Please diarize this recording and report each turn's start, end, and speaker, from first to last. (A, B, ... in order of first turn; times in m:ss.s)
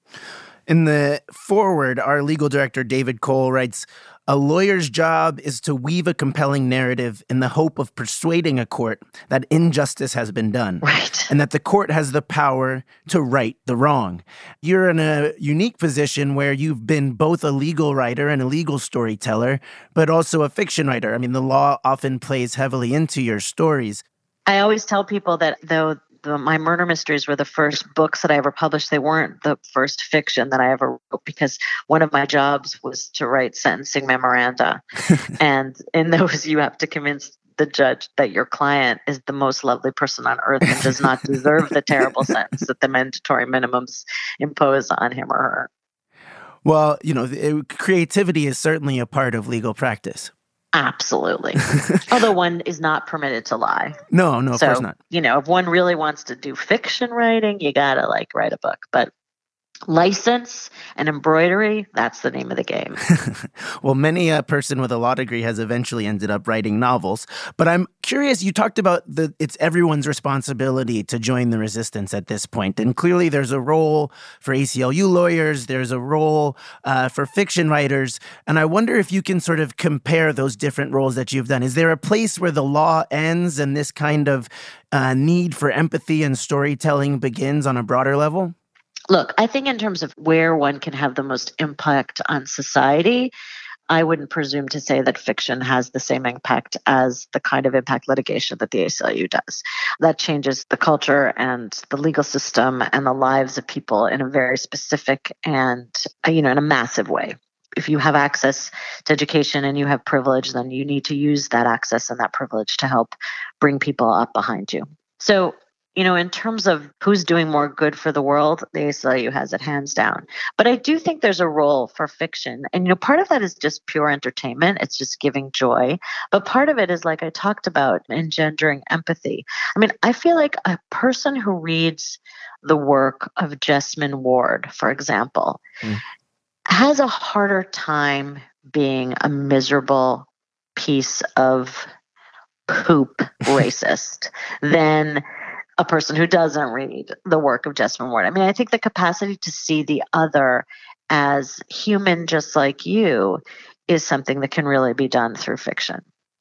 0:00.7-0:24.0 A
0:10.8-0:11.3 B
0:24.5-0:34.8 B
0:35.4-0:45.7 B
0:46.6-0:50.3 A
0:50.7-0:54.0 B
0:54.1-0:55.0 A
0:54.5-0:59.1 B
0:59.9-1:03.0 B
1:03.1-1:28.5 A
1:29.1-1:33.3 B
1:33.9-2:15.6 B
2:16.7-2:21.9 B
2:22.7-2:25.2 B
2:25.8-2:36.0 B